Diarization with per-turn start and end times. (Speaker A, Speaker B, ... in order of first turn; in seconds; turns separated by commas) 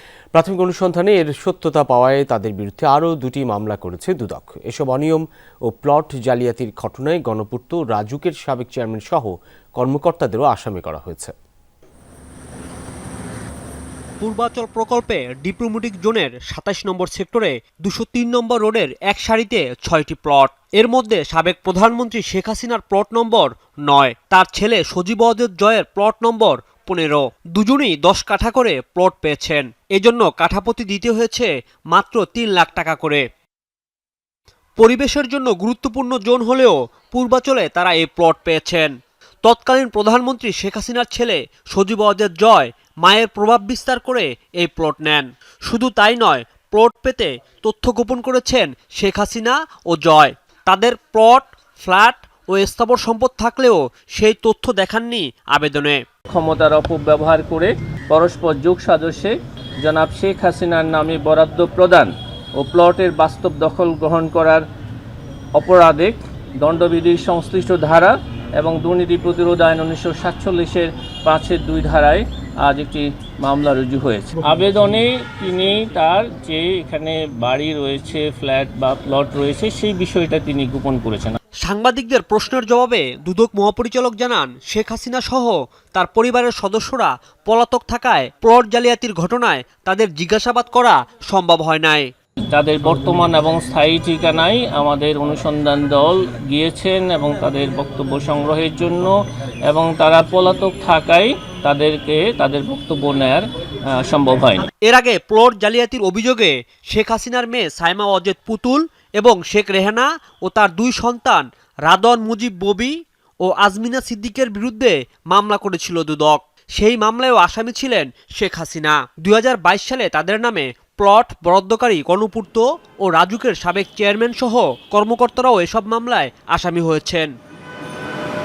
Speaker A: 0.3-11.3, Speaker B: 14.2-33.2, Speaker B: 34.8-38.9, Speaker B: 39.4-56.0, Speaker C: 56.3-64.7, Speaker C: 65.5-81.4, Speaker B: 81.6-92.1, Speaker C: 92.5-104.7, Speaker B: 104.7-127.3